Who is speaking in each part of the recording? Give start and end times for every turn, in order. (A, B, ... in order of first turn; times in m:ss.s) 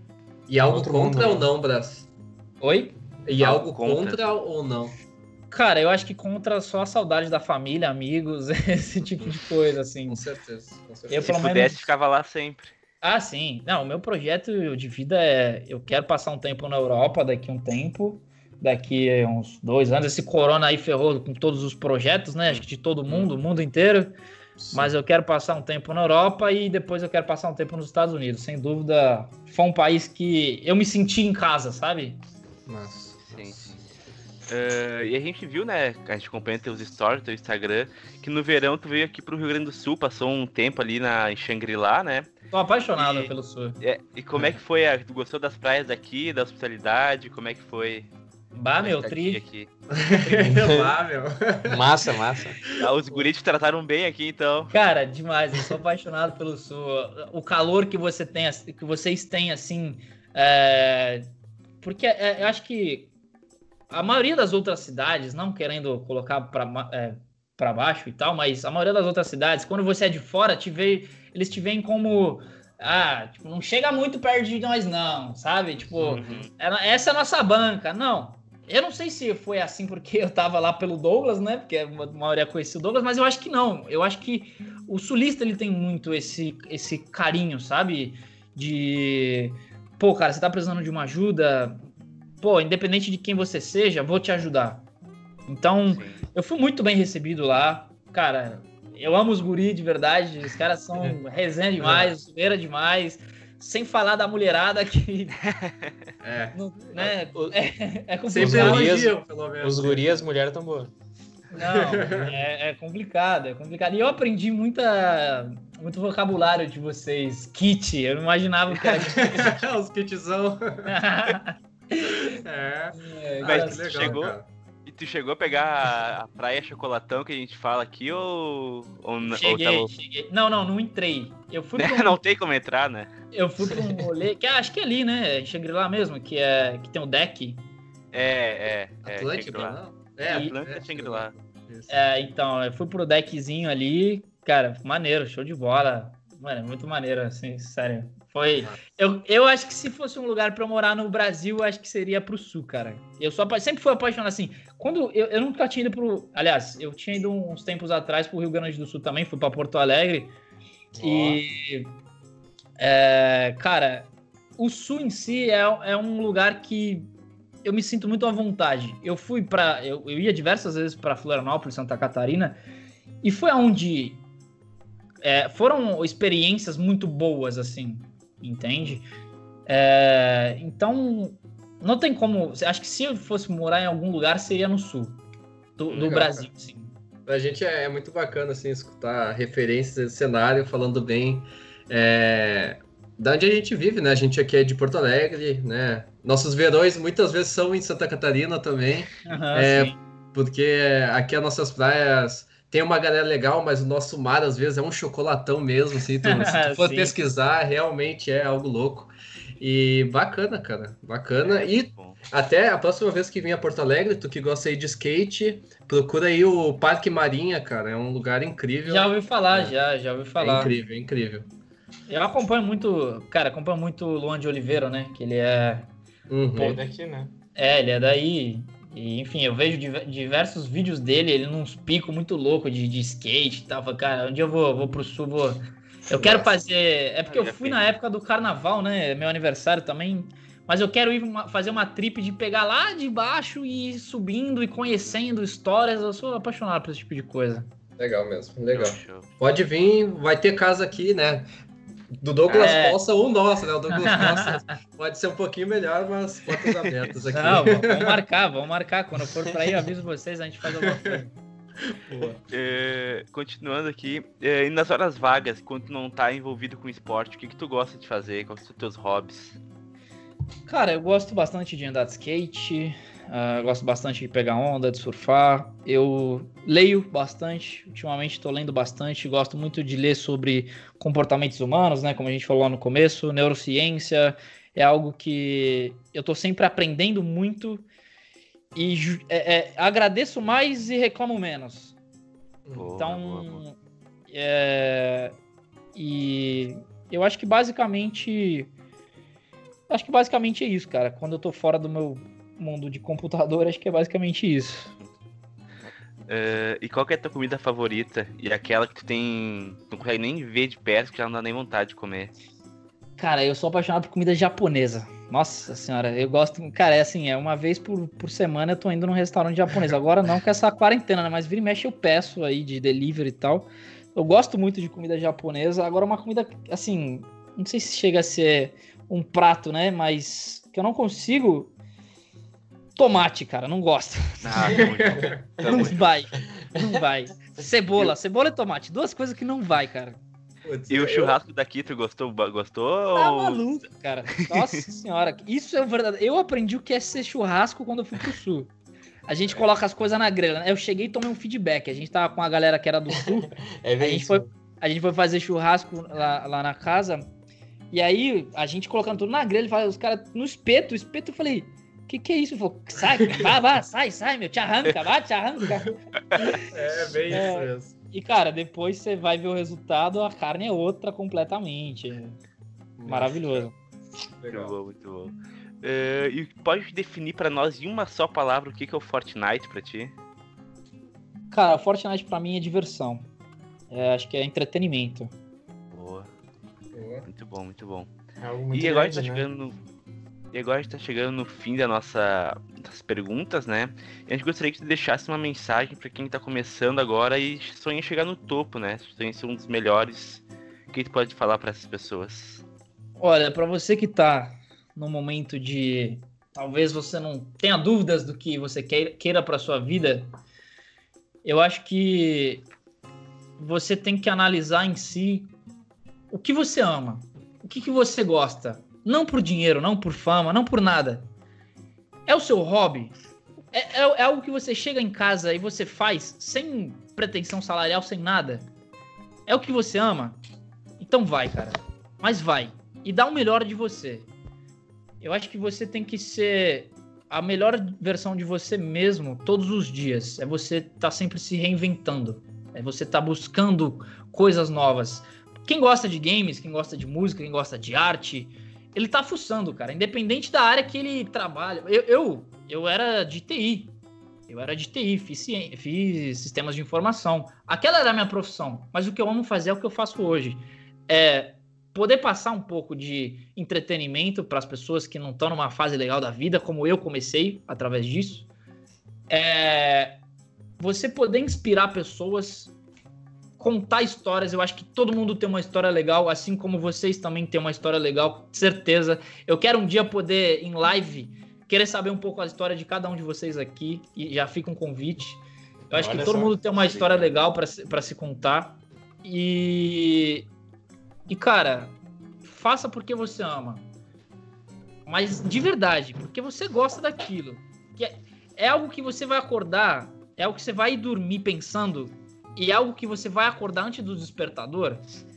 0:00.5-0:02.1 A
0:00.6-0:01.5 B
0:02.6-0:03.0 C
0:03.2-0:05.0 A
0:03.4-0:04.4 D
0:05.5-0:10.2 C
0:10.1-0:11.3 A
0:11.1-0:11.9 C
0:11.2-0:12.7 D
0:13.0-0:24.1 C
0:23.1-0:23.3 A
0:24.6-0:24.9 A
0:24.7-0:32.2 C
0:32.6-0:33.8 A
0:33.3-0:33.6 D
0:34.5-0:42.3 D
0:42.5-0:43.8 C
0:43.0-0:48.1 D
0:48.5-0:49.4 C
0:48.8-0:49.7 D
0:49.9-0:51.8 A
0:50.4-0:50.9 B
0:51.7-0:52.6 B
0:52.7-0:54.7 D
0:52.8-0:53.3 A
0:54.7-1:01.2 C
1:01.8-1:03.1 C
1:03.9-1:31.8 C
1:15.9-1:16.4 A
1:16.0-1:16.5 D
1:32.4-1:34.8 C
1:35.5-1:45.4 C
1:35.9-1:36.2 D
1:41.8-1:42.1 A
1:45.4-1:45.9 D
1:46.2-1:47.2 A
1:46.5-1:49.0 C
1:48.3-1:50.2 A
1:48.4-1:50.9 B
1:51.5-1:59.6 C
1:51.5-1:52.4 A
1:59.0-2:01.0 A
2:00.8-2:02.4 C
2:02.0-2:04.5 A
2:02.9-2:04.2 C
2:03.4-2:09.9 D
2:09.3-2:12.2 C
2:11.8-2:13.1 D
2:13.3-2:17.6 C
2:18.1-2:21.3 D
2:19.0-2:22.0 A
2:20.3-2:20.5 C
2:21.9-2:40.3 C
2:40.9-2:41.4 B
2:41.0-2:41.9 C
2:42.8-2:47.1 C
2:47.6-2:52.6 C
2:53.2-2:54.2 C
2:55.2-2:59.0 C
2:59.7-3:05.2 C
3:05.8-3:06.9 C
3:05.9-3:06.5 A
3:07.2-3:39.7 A
3:19.2-3:20.0 C
3:26.2-3:27.1 C
3:31.4-3:32.2 D
3:38.8-3:40.7 C
3:40.4-3:41.5 A
3:42.1-3:45.9 C
3:46.3-3:46.8 A
3:46.5-3:47.3 B
3:47.6-4:07.7 C
3:56.1-3:56.5 A
3:57.3-3:57.9 D
4:08.0-4:11.5 A
4:08.7-4:09.3 D
4:12.2-4:18.2 A
4:12.4-4:12.8 D
4:12.6-4:13.0 C
4:13.9-4:14.7 C
4:17.3-4:21.3 C
4:22.1-4:22.4 A
4:22.5-4:29.6 D
4:30.6-4:47.8 C
4:48.7-4:52.0 C
4:52.7-4:53.6 D
4:53.0-4:53.8 C
4:54.3-4:55.3 C
4:55.9-4:58.7 C
4:59.9-5:04.9 C
5:06.3-5:12.3 D
5:13.2-5:31.7 C
5:33.0-5:34.8 C
5:34.4-5:36.0 D
5:34.7-5:35.9 A
5:35.6-5:40.2 C
5:40.6-5:41.4 A
5:40.9-5:43.6 D
5:43.1-5:48.7 C
5:49.3-5:57.2 C
5:53.2-5:54.5 B
5:57.9-6:06.6 C
6:06.6-6:07.9 A
6:07.3-6:12.4 C
6:13.0-6:13.6 A
6:13.0-6:13.7 C
6:14.4-6:14.8 A
6:14.5-6:20.1 D
6:21.5-6:23.2 C
6:23.9-6:25.3 C
6:25.9-6:26.3 D
6:26.9-6:27.3 A
6:27.2-6:28.1 D
6:28.4-6:29.5 B
6:28.7-6:29.8 D
6:30.5-6:42.6 D
6:43.2-6:50.3 C
6:51.4-6:52.6 C
6:53.6-6:55.5 C
6:56.3-7:01.3 C
7:02.3-7:03.1 C
7:03.7-7:08.7 C
7:09.5-7:10.4 C
7:11.0-7:14.3 C
7:15.2-7:34.0 C
7:34.5-7:48.5 C
7:49.3-7:50.2 C
7:50.8-7:52.7 C
7:53.6-8:10.5 C
8:05.9-8:07.3 B
8:11.3-8:13.8 C
8:15.0-8:25.0 C